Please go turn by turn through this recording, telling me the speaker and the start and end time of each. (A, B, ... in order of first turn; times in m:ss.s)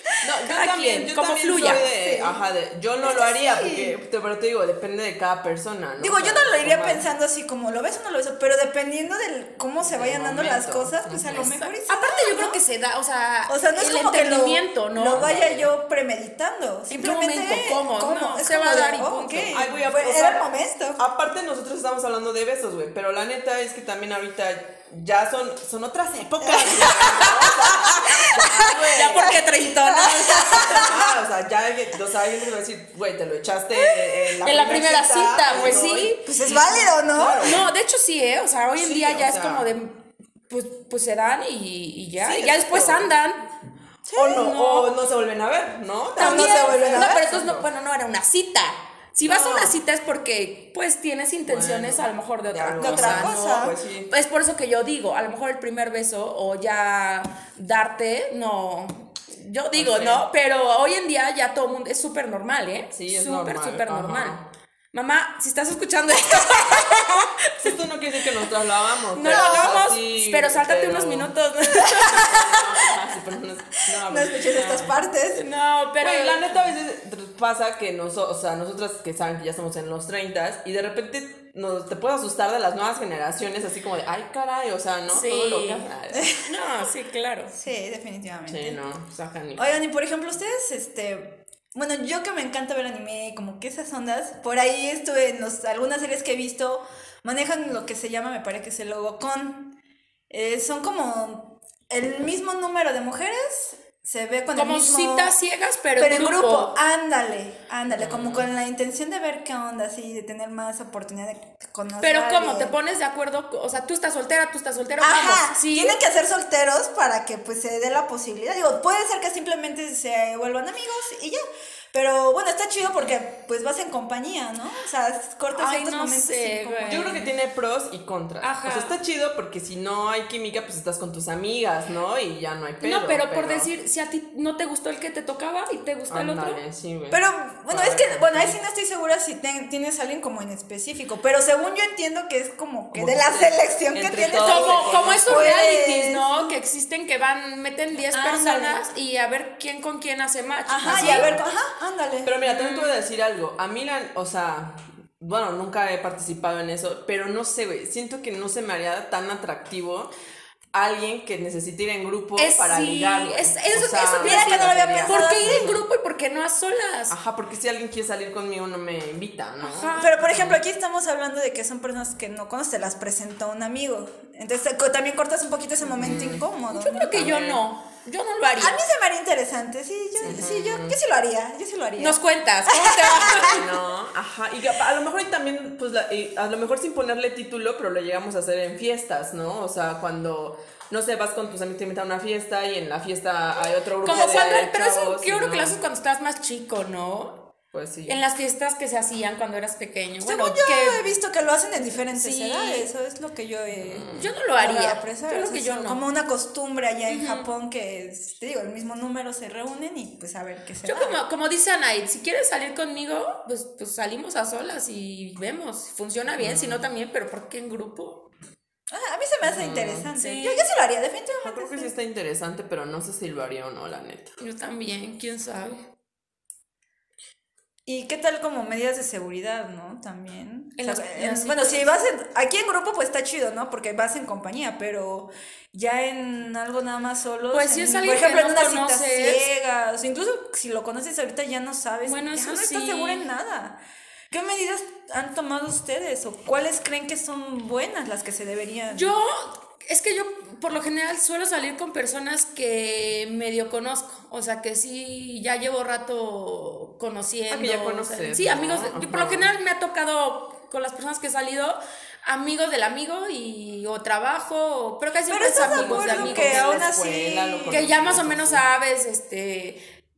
0:00.2-0:07.1 A
0:00.4-0:01.9 B
0:01.6-0:02.4 C
0:03.0-0:04.0 C
0:06.0-0:12.6 C
0:09.8-0:11.6 A
0:11.3-0:15.3 B
0:13.5-0:21.0 C
0:15.1-0:15.7 A
0:16.9-0:19.6 B
0:19.5-0:29.4 A
0:26.4-0:31.1 C
0:28.2-0:31.0 B
0:30.5-0:37.7 A
0:33.8-0:37.6 C
0:34.4-0:36.3 B
0:37.4-0:43.5 B
0:38.8-0:39.7 A
0:42.2-0:43.1 A
0:44.1-0:44.5 C
0:44.1-0:47.7 A
0:44.2-0:44.9 B
0:46.2-0:47.3 C
0:46.2-1:04.4 B
0:49.2-0:49.7 A
0:51.5-0:54.1 A
0:52.8-0:53.8 C
0:59.7-1:00.3 A
1:03.0-1:04.5 A
1:04.9-1:07.8 B
1:07.6-1:11.3 A
1:09.1-1:12.6 B
1:09.3-1:09.8 C
1:12.0-1:15.0 A
1:14.0-1:15.4 C
1:15.4-1:16.6 B
1:16.0-1:26.4 A
1:25.1-1:27.5 B
1:26.1-1:26.4 C
1:27.5-1:28.8 C
1:28.5-1:29.8 A
1:29.6-1:39.8 C
1:40.3-1:45.4 C
1:44.5-1:46.8 B
1:46.0-1:52.8 C
1:47.9-1:48.5 A
1:52.0-1:56.0 B
1:55.0-2:01.4 C
2:01.9-2:07.3 C
2:05.5-2:07.2 B
2:06.9-2:13.7 A
2:08.4-2:09.0 B
2:12.8-2:16.6 B
2:16.1-2:18.6 A
2:17.1-2:26.5 C
2:22.9-2:25.5 A
2:24.3-2:31.3 B
2:28.1-2:28.8 C
2:30.7-2:33.0 C
2:30.8-2:31.4 A
2:32.2-2:40.1 A
2:40.7-2:45.8 A
2:42.4-2:47.2 B
2:44.1-2:45.7 C
2:47.1-2:50.6 A
2:49.6-2:50.2 B
2:50.0-2:57.2 C
2:55.9-2:56.5 A
2:56.7-2:58.8 B
2:57.1-2:57.6 A
2:58.6-3:03.6 C
3:00.2-3:01.0 A
3:02.0-3:03.7 B
3:03.2-3:15.8 A
3:14.0-3:17.5 B
3:14.1-3:14.5 C
3:17.7-3:18.2 A
3:18.1-3:21.0 B
3:20.2-3:31.2 C
3:21.8-3:22.9 B
3:23.8-3:24.3 A
3:24.2-3:26.0 B
3:27.1-3:27.5 B
3:30.8-3:38.3 B
3:36.4-3:36.8 A
3:38.9-3:41.9 C
3:39.4-3:40.1 A
3:40.2-3:40.7 B
3:41.4-3:44.4 A
3:44.4-3:45.8 B
3:47.9-4:09.1 C
3:50.8-3:51.9 B
3:57.5-3:59.5 B
4:02.0-4:03.3 B
4:08.9-4:26.6 B
4:17.5-4:19.5 A
4:25.3-4:27.8 C
4:25.6-4:28.6 A
4:27.7-4:29.8 B